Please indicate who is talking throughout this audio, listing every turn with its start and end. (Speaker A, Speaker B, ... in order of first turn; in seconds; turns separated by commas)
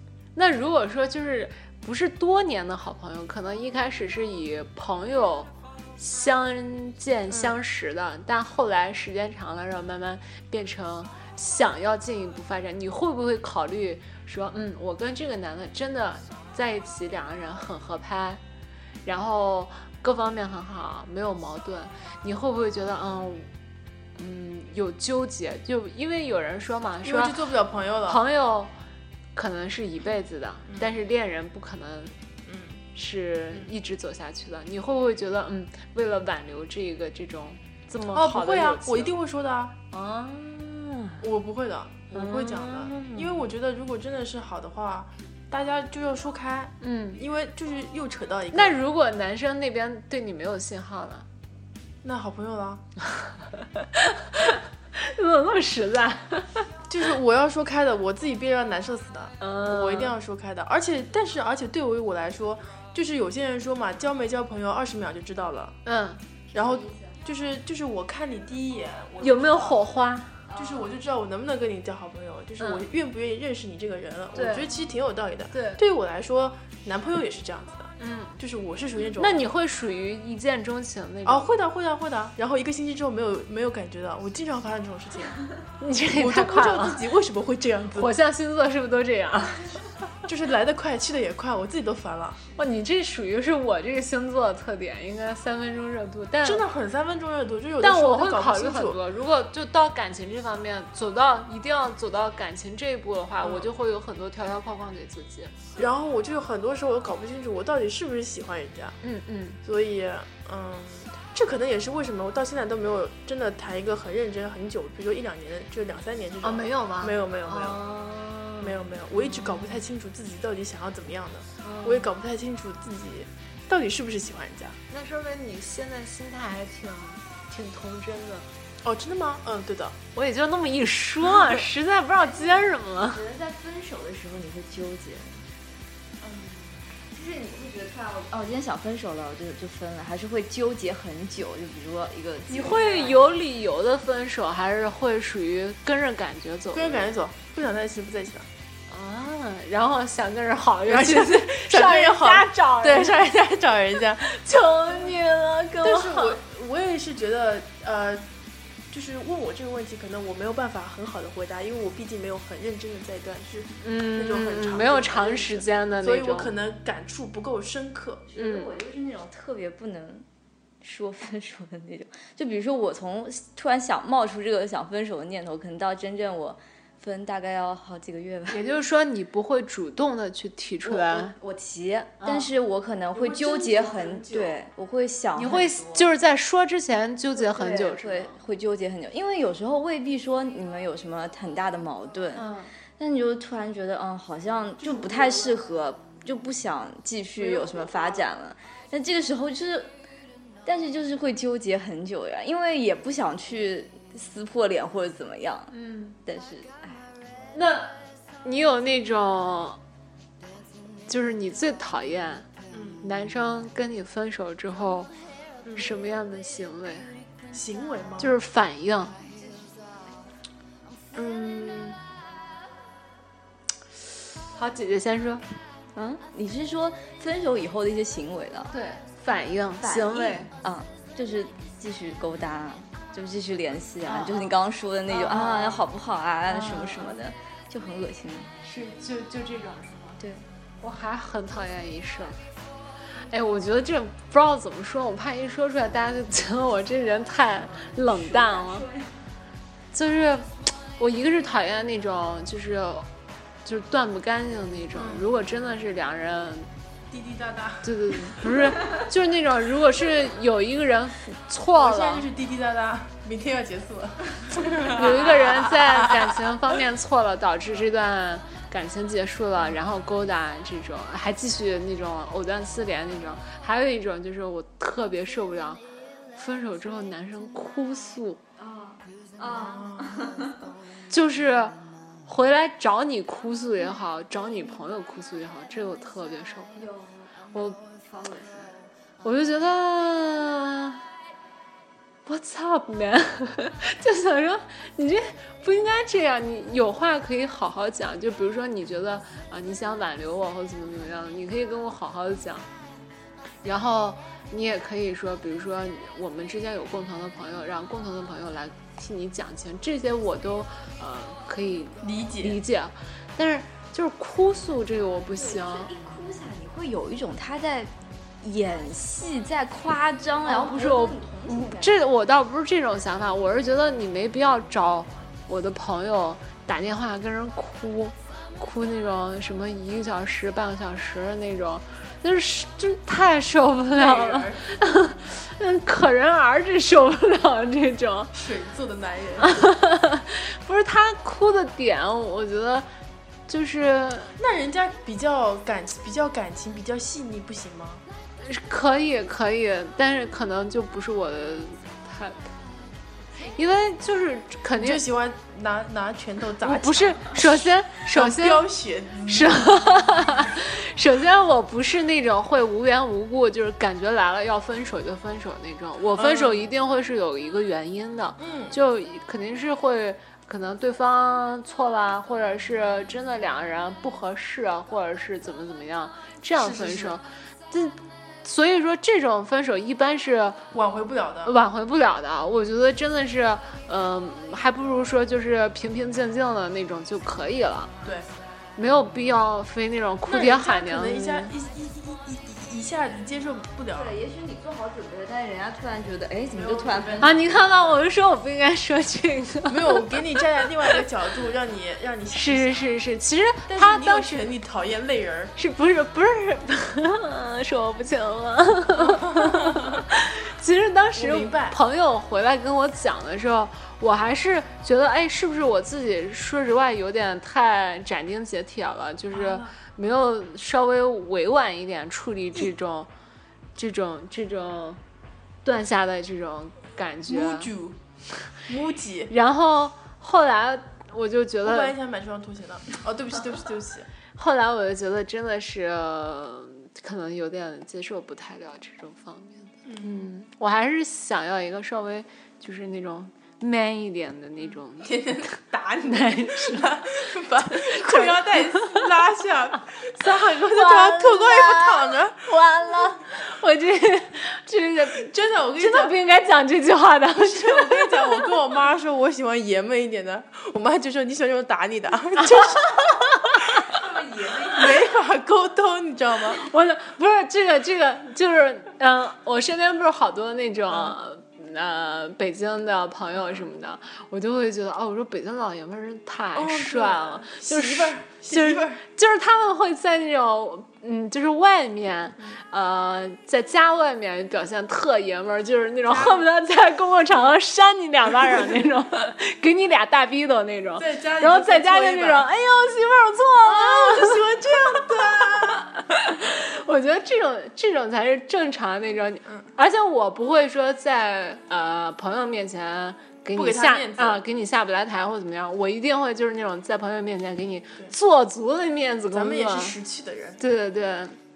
Speaker A: 0.3-18.4, Speaker B: 7.3-7.6, Speaker A: 19.0-23.5, Speaker A: 24.2-27.4, Speaker B: 27.0-28.2, Speaker A: 28.0-28.7, Speaker A: 29.3-32.1, Speaker B: 32.4-32.8, Speaker A: 32.9-39.2, Speaker B: 38.1-39.7, Speaker A: 39.9-41.2, Speaker B: 41.2-48.8, Speaker A: 42.1-43.5, Speaker A: 46.8-47.2, Speaker A: 48.5-51.2, Speaker B: 52.0-52.8, Speaker A: 53.8-56.7, Speaker B: 56.9-65.8, Speaker A: 59.4-60.1, Speaker A: 65.8-66.2, Speaker C: 66.5-67.2, Speaker B: 66.5-69.8, Speaker A: 69.2-70.3, Speaker C: 70.5-70.9, Speaker B: 70.5-79.4, Speaker A: 72.6-72.8, Speaker A: 74.3-74.7, Speaker A: 75.5-75.8, Speaker A: 78.0-78.3, Speaker A: 79.2-81.5, Speaker B: 81.2-85.4, Speaker A: 85.8-87.0, Speaker B: 86.1-88.1, Speaker A: 87.9-89.7, Speaker B: 90.2-92.4, Speaker A: 92.5-96.6, Speaker B: 96.4-99.0, Speaker A: 97.8-105.5, Speaker B: 103.4-103.7, Speaker B: 105.8-109.0, Speaker A: 109.0-109.6, Speaker B: 109.6-117.8, Speaker A: 116.4-119.8, Speaker B: 118.6-124.8, Speaker A: 121.6-122.1, Speaker A: 124.9-128.5, Speaker B: 128.8-129.9, Speaker A: 130.1-133.2, Speaker C: 132.2-135.4, Speaker C: 137.1-143.2, Speaker A: 142.5-147.1, Speaker B: 146.7-148.5, Speaker A: 148.9-153.3, Speaker B: 150.9-154.3, Speaker A: 154.2-156.4, Speaker B: 155.8-158.3, Speaker B: 158.9-168.2, Speaker A: 163.8-166.5, Speaker C: 168.3-170.2, Speaker A: 168.4-168.7, Speaker C: 170.8-178.6, Speaker A: 178.5-181.3, Speaker C: 180.8-186.1, Speaker A: 182.2-182.5, Speaker B: 183.1-184.6, Speaker A: 185.3-188.4, Speaker C: 187.3-199.9, Speaker A: 192.3-192.7, Speaker B: 194.8-195.5, Speaker B: 197.3-198.2, Speaker C: 200.6-205.7, Speaker A: 205.7-206.2, Speaker C: 206.2-207.1, Speaker A: 207.5-209.8, Speaker A: 211.1-212.4, Speaker B: 212.7-213.0, Speaker A: 213.0-215.1, Speaker A: 215.8-217.1, Speaker B: 217.5-218.3, Speaker A: 218.2-219.2, Speaker B: 221.1-222.0, Speaker A: 224.6-225.4, Speaker C: 225.9-228.7, Speaker A: 228.7-230.5, Speaker C: 229.8-238.5, Speaker A: 234.0-234.5, Speaker A: 235.1-235.8, Speaker A: 236.5-237.2, Speaker A: 238.6-240.2, Speaker C: 240.2-240.4, Speaker A: 240.8-242.3, Speaker A: 243.3-248.9, Speaker C: 248.0-249.1, Speaker A: 249.9-253.1, Speaker A: 253.6-256.7, Speaker B: 254.9-255.3, Speaker B: 257.1-258.4, Speaker A: 257.8-262.3, Speaker B: 261.7-266.4, Speaker A: 264.9-275.8, Speaker A: 276.3-278.4, Speaker C: 278.6-280.6, Speaker B: 279.5-280.5, Speaker A: 281.1-286.8, Speaker C: 286.8-288.8, Speaker A: 289.2-291.0, Speaker A: 292.2-302.7, Speaker A: 303.6-315.9, Speaker B: 312.0-312.6, Speaker C: 315.3-317.9, Speaker C: 318.4-321.9, Speaker A: 320.4-338.3, Speaker B: 333.9-334.7, Speaker B: 338.3-339.6, Speaker A: 339.4-342.9, Speaker A: 343.5-344.3, Speaker B: 344.4-348.0, Speaker A: 348.4-352.5, Speaker A: 353.5-355.0, Speaker B: 354.8-359.8, Speaker A: 356.6-358.7, Speaker A: 359.2-380.6, Speaker B: 366.1-366.7, Speaker B: 368.4-368.8, Speaker B: 376.6-377.2, Speaker B: 380.7-381.5, Speaker A: 381.4-387.9, Speaker A: 388.8-391.5, Speaker B: 390.2-394.2, Speaker C: 393.9-397.3, Speaker B: 396.5-397.4, Speaker A: 397.2-401.0, Speaker B: 399.7-402.9, Speaker A: 402.3-404.4, Speaker B: 403.7-405.5, Speaker A: 405.6-423.1, Speaker B: 408.9-410.0, Speaker B: 411.1-411.8, Speaker B: 419.3-419.7, Speaker A: 423.8-425.0, Speaker A: 425.6-427.7, Speaker B: 427.3-428.0, Speaker B: 428.6-429.3, Speaker A: 429.3-431.9, Speaker B: 431.6-434.1, Speaker A: 434.3-449.0, Speaker B: 439.9-440.3, Speaker B: 445.0-452.5, Speaker A: 450.5-458.6, Speaker B: 455.1-456.1, Speaker B: 457.4-466.6, Speaker C: 463.9-464.9, Speaker A: 466.6-509.9, Speaker B: 470.9-471.2, Speaker B: 473.4-473.7, Speaker B: 476.5-479.0, Speaker B: 486.1-486.5, Speaker B: 491.0-492.5, Speaker B: 493.6-495.9, Speaker B: 503.5-504.4, Speaker B: 509.3-510.6, Speaker A: 510.6-511.3